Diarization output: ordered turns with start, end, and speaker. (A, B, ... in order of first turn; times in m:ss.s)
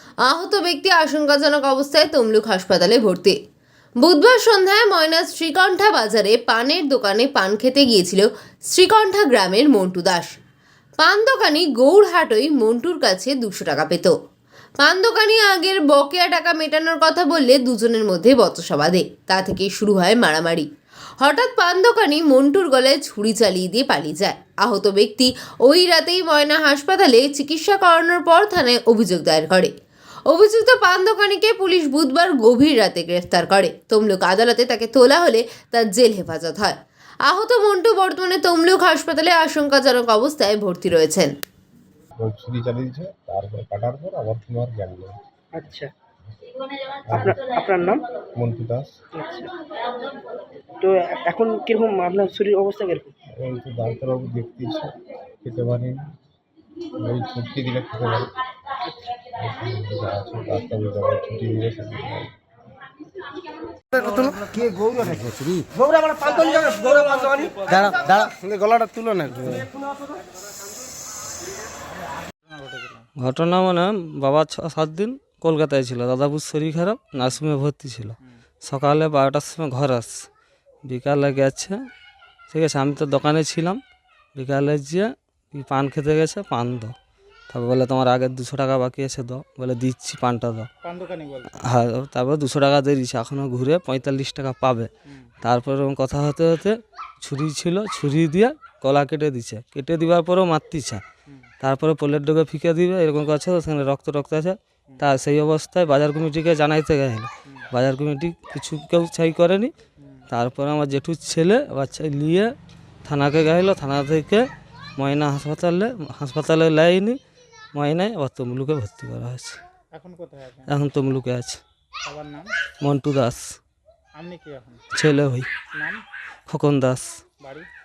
0:00.2-0:03.4 A
0:04.0-0:10.4 A
0:11.0-0:14.1 A
0:14.8-0:20.7 A
0:21.2-0:29.7 A
0:30.3-0:41.3 A
0:42.2-0:45.2 B
0:45.5-0:45.9 C
0:47.1-0:47.4 B
0:47.1-0:48.0 C
0:48.3-0:48.9 B
0:49.1-0:49.5 C
0:50.8-0:53.1 C
0:53.4-0:56.0 B
0:56.9-0:58.3 B
0:58.8-0:59.2 C
0:59.2-1:02.3 B
1:03.9-1:08.3 D
1:04.8-1:05.2 B
1:08.2-1:09.6 B
1:12.2-1:13.1 E
1:13.2-1:20.1 F
1:20.8-1:21.8 F
1:22.5-1:23.8 F
1:24.3-1:26.9 F
1:27.5-1:30.7 F
1:30.8-1:31.6 E
1:31.6-1:34.9 F
1:35.4-1:41.0 F
1:41.6-1:49.7 F
1:50.3-1:52.5 F
1:53.0-1:57.2 F
1:57.7-1:59.6 F
1:59.9-2:00.8 E
2:00.7-2:01.6 F
2:02.0-2:02.5 E
2:02.8-2:03.4 F
2:04.2-2:04.8 E
2:04.9-2:05.5 F
2:05.7-2:06.0 E
2:06.5-2:07.2 F
2:07.4-2:07.7 E